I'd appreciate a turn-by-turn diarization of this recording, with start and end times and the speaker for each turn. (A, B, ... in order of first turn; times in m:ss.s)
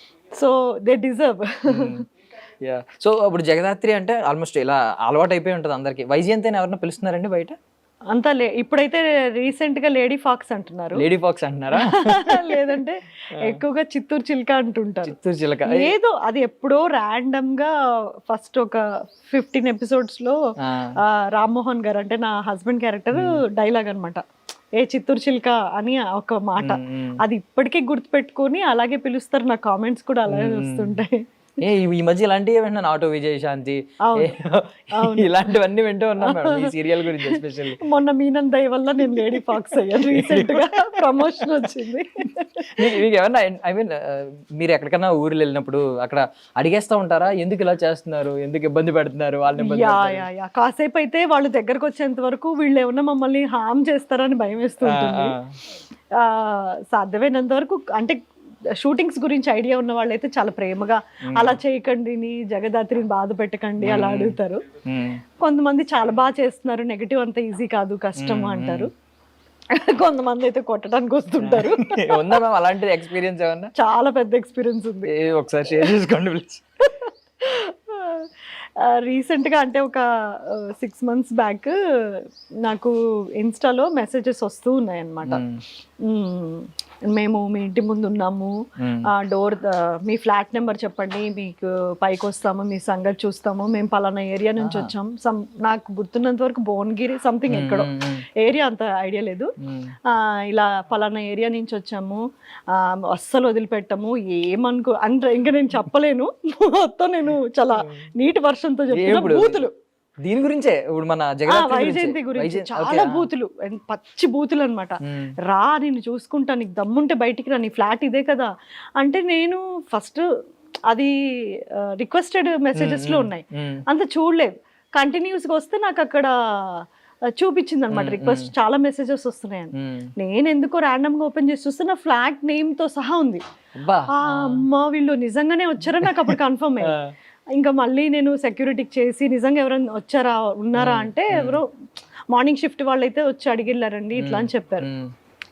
0:00.3-0:02.0 A
0:01.7-0:02.0 B
0:02.6-0:07.6 B
0:08.1-0:11.0 A
0:11.0-0:12.7 B
0:11.9-0:15.1 A
0:15.0-0:15.9 B
0:15.7-0:17.7 A
0:18.3-0:20.4 A
0:20.6-0:20.9 B
0:21.0-0:24.2 A
0:24.8-0:31.2 A
0:26.6-0:27.2 B
0:30.3-0:31.0 B
0:31.6-0:37.8 B
0:34.1-0:34.3 A
0:35.0-0:35.3 A
0:36.2-0:36.7 A
0:37.8-0:42.7 A
0:40.2-0:40.6 B
0:41.1-0:41.5 B
0:42.8-0:50.3 B
0:49.6-0:55.4 A
0:54.8-0:55.6 B
0:56.2-0:58.2 A
0:58.8-1:04.6 A
1:03.8-1:04.4 B
1:04.9-1:05.2 B
1:05.4-1:08.9 A
1:08.2-1:08.9 B
1:09.8-1:12.3 A
1:11.4-1:13.7 B
1:13.8-1:15.1 A
1:15.1-1:16.6 B
1:17.4-1:18.3 A
1:18.8-1:25.4 A
1:25.3-1:25.6 B
1:26.0-1:28.6 A
1:28.8-1:29.1 B
1:29.1-1:39.5 A
1:34.6-1:34.9 B
1:37.5-1:38.2 B
1:39.6-1:39.9 B
1:40.1-1:49.7 A
1:49.0-1:49.7 B
1:50.2-1:53.2 B
1:51.5-1:55.0 A
1:55.5-2:00.2 A
2:02.0-2:06.8 A
2:02.8-2:03.8 B
2:07.4-2:13.4 A
2:07.9-2:08.5 B
2:09.8-2:10.1 B
2:13.8-2:14.6 B
2:14.2-2:17.0 A
2:16.0-2:16.3 B
2:16.9-2:17.1 B
2:17.6-2:21.7 A
2:20.8-2:21.6 B
2:22.3-2:24.9 A
2:24.2-2:25.1 B